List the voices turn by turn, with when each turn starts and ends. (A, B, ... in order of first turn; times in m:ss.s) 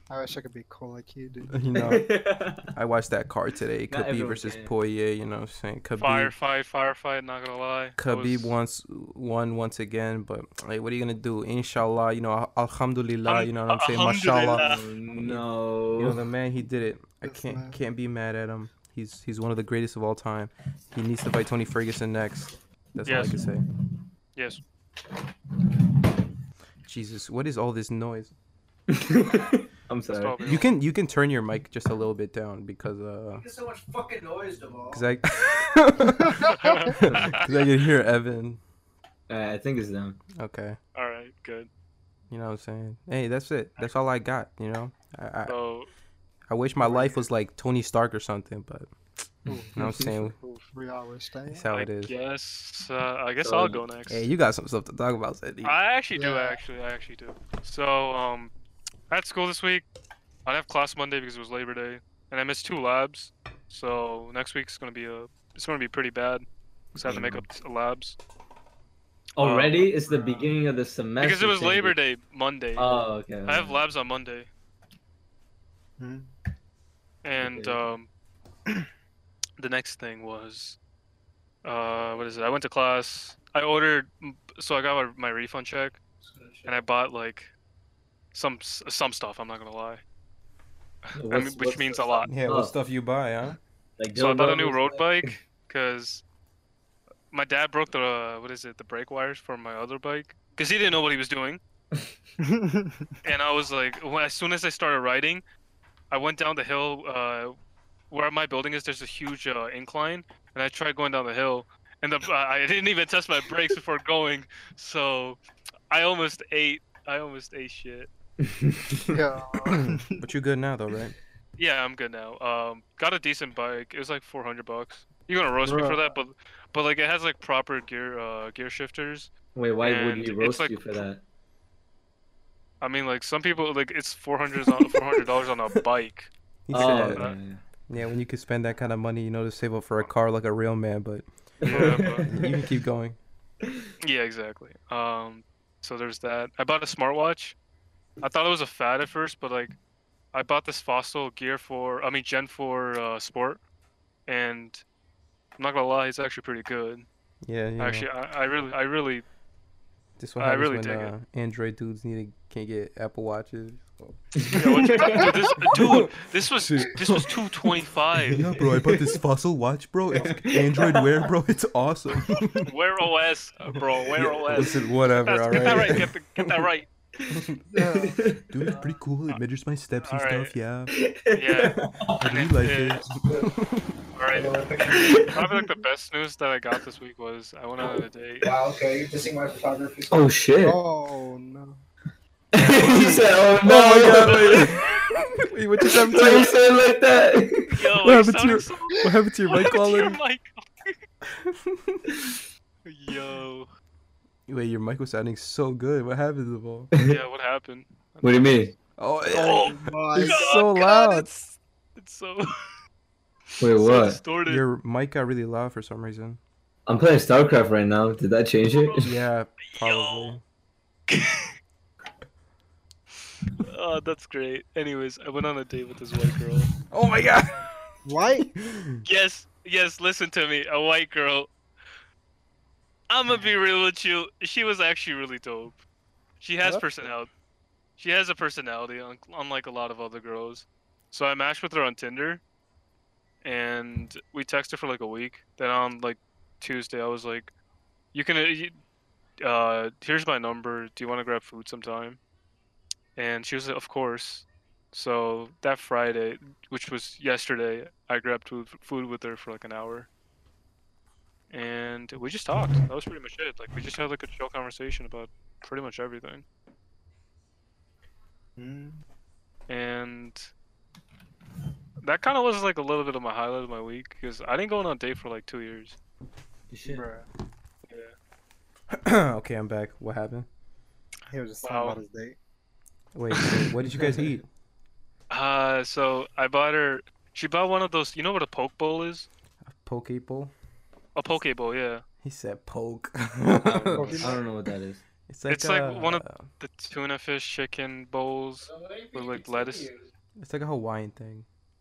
0:00.1-0:01.6 A
0:01.5-0:02.1 B
0:01.7-0:02.7 C
0:02.7-0:06.3 B
0:03.9-0:04.7 C
0:06.0-0:08.5 D
0:08.0-0:15.4 B
0:13.2-0:14.8 D
0:14.5-0:16.2 C
0:16.0-0:23.6 B
0:17.2-0:17.8 A
0:23.0-0:23.4 D
0:24.4-0:24.6 D
0:26.8-0:28.3 B
0:28.9-0:30.6 C
0:30.1-0:30.7 D
0:30.4-0:33.4 B
0:33.3-0:35.0 E
0:34.9-0:38.6 B
0:36.4-0:37.4 D
0:36.6-0:36.9 A
0:39.3-0:40.2 C
0:40.4-0:40.8 B
0:40.9-0:41.7 D
0:42.3-0:45.6 B
0:45.5-0:45.9 D
0:46.5-0:48.9 B
0:46.8-0:47.3 A
0:49.4-0:50.0 A
0:49.8-0:50.4 B
0:50.4-0:50.6 D
0:50.7-0:51.6 A
0:51.5-0:52.1 B
0:51.7-0:54.2 D
0:53.4-0:53.8 C
0:54.1-0:55.8 B
0:55.6-0:58.5 D
0:56.1-0:56.6 A
0:59.1-0:59.9 D
1:00.4-1:06.4 D
1:06.9-1:07.5 C
1:07.0-1:08.2 D
1:09.4-1:12.0 C
1:09.4-1:10.4 D
1:11.2-1:14.5 D
1:12.8-1:13.8 C
1:16.0-1:16.3 A
1:17.2-1:18.1 D
1:17.4-1:17.8 C
1:19.6-1:20.8 D
1:21.6-1:26.0 D
1:26.2-1:26.8 E
1:26.6-1:27.5 D
1:28.3-1:30.0 D
1:31.0-1:32.3 D
1:31.2-1:32.7 C
1:32.3-1:33.6 B
1:34.0-1:35.3 C
1:34.1-1:36.2 D
1:37.3-1:41.6 D
1:42.4-1:43.1 A
1:43.2-1:45.4 D
1:46.1-1:47.6 D
1:48.1-1:58.1 D
1:58.4-1:59.2 C
1:59.1-2:00.2 A
1:59.6-2:01.2 B
2:01.6-2:10.8 D
2:05.6-2:06.0 A
2:09.5-2:11.2 C
2:12.8-2:17.4 D
2:16.6-2:17.3 B
2:16.7-2:17.6 C
2:17.9-2:23.2 B
2:21.6-2:22.7 C
2:21.6-2:22.2 D
2:24.0-2:27.6 D
2:28.2-2:29.8 D
2:30.3-2:33.6 D
2:34.3-2:34.8 D
2:35.6-2:37.1 D
2:37.4-2:38.1 B
2:37.8-2:39.2 D
2:40.2-2:44.2 B
2:40.4-2:41.1 D
2:44.3-2:45.3 C
2:44.5-2:48.4 D
2:45.6-2:47.3 B
2:48.3-2:49.2 C
2:48.3-2:52.7 B
2:50.2-2:51.3 C
2:52.6-2:56.9 D
2:54.2-2:54.6 C
2:54.5-2:56.7 B
2:57.2-2:58.5 C
2:57.3-2:57.6 B
2:57.7-2:58.2 A
2:58.5-3:00.9 B
2:58.7-2:59.0 E
3:00.0-3:00.5 D
3:00.9-3:02.2 C
3:01.3-3:03.0 D
3:02.2-3:03.9 B
3:03.2-3:03.5 E
3:04.2-3:04.5 D
3:04.3-3:05.2 E
3:04.9-3:05.4 C
3:05.3-3:08.5 D
3:08.4-3:10.3 E
3:10.1-3:10.8 C
3:10.6-3:11.8 A
3:12.5-3:14.8 C
3:12.6-3:13.3 D
3:12.8-3:16.5 B
3:14.1-3:14.8 D
3:15.8-3:17.8 C
3:17.7-3:19.0 D
3:18.0-3:20.2 B
3:19.5-3:21.0 D
3:21.4-3:22.0 B
3:22.8-3:23.7 D
3:24.5-3:26.9 B
3:26.9-3:27.2 C
3:27.0-3:28.6 D
3:28.2-3:28.7 C
3:29.0-3:31.4 B
3:29.3-3:32.7 D
3:29.6-3:30.6 A
3:33.6-3:34.2 C
3:33.7-3:34.6 D
3:34.4-3:36.4 B
3:36.8-3:39.0 C
3:38.8-3:39.1 D
3:39.0-3:40.4 B
3:39.7-3:40.4 D
3:41.1-3:41.5 D
3:43.6-3:46.7 D
3:46.9-3:47.7 B
3:48.0-3:48.5 A
3:48.4-3:49.0 B
3:49.0-3:51.5 D
3:53.1-3:55.8 D
3:53.3-3:53.5 A
3:56.4-3:57.3 D
3:58.0-4:02.4 D
4:03.4-4:07.5 D
4:08.1-4:08.8 D
4:09.4-4:12.2 D
4:13.2-4:20.1 D
4:21.5-4:26.4 D
4:28.6-4:29.0 A
4:29.7-4:30.5 D
4:32.0-4:36.0 D
4:36.7-4:37.0 C
4:36.8-4:37.2 A
4:38.9-4:40.5 B
4:41.3-4:42.4 A
4:41.6-4:42.0 D
4:43.1-4:44.4 B
4:43.3-4:43.6 D
4:43.9-4:44.3 C
4:45.3-4:49.3 D
4:49.6-4:50.5 B
4:51.1-4:52.0 D
4:52.2-4:54.2 B
4:53.8-4:54.4 A
4:53.9-4:55.0 C
4:55.3-4:56.4 B
4:55.5-4:59.9 D
4:58.6-5:00.1 E
5:00.4-5:01.4 B